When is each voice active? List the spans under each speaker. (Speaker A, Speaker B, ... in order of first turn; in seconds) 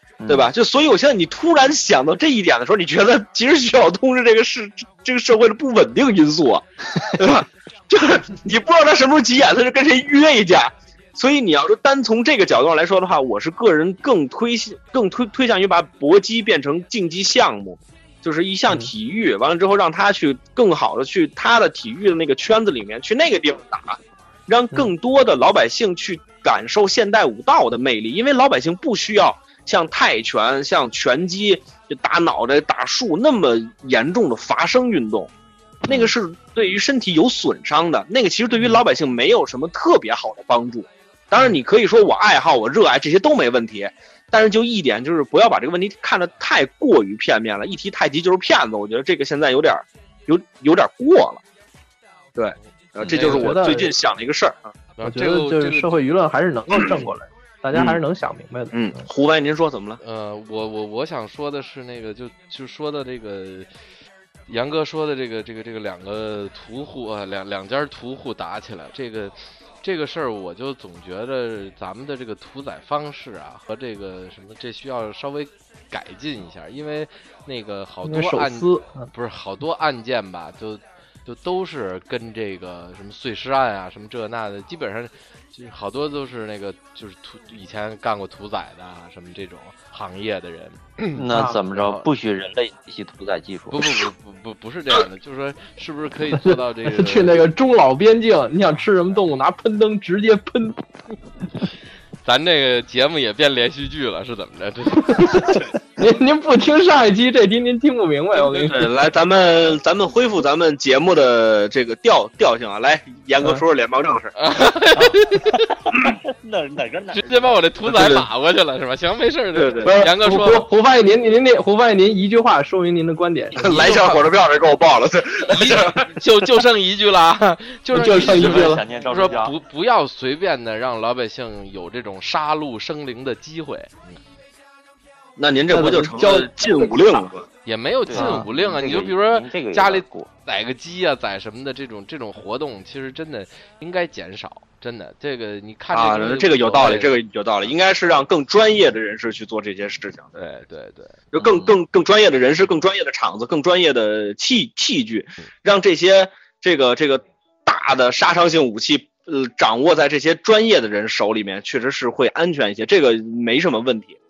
Speaker A: 0.2-0.5, 91.1-93.9, 114.9-117.6, 128.0-129.5, 138.1-140.3, 151.3-151.8
Speaker B: 0.3-35.3, 35.8-51.4, 52.4-54.6, 57.7-58.0, 58.7-60.0, 108.3-114.3, 117.9-118.2, 119.5-119.9, 123.6-126.1, 135.4-137.4, 145.9-150.3, 151.3-164.2
Speaker C: 53.0-53.5, 55.0-55.9, 60.0-63.7, 64.5-92.0, 93.7-97.4, 102.2-105.5, 114.4-115.6, 117.1-120.7, 123.6-124.2, 125.5-134.2, 137.6-147.1, 150.3-151.2
Speaker D: 53.1-53.9, 55.0-59.0, 78.0-79.1, 91.3-91.6, 96.4-100.8, 105.0-108.9, 119.8-124.0, 127.9-128.8, 135.7-136.9, 138.1-138.5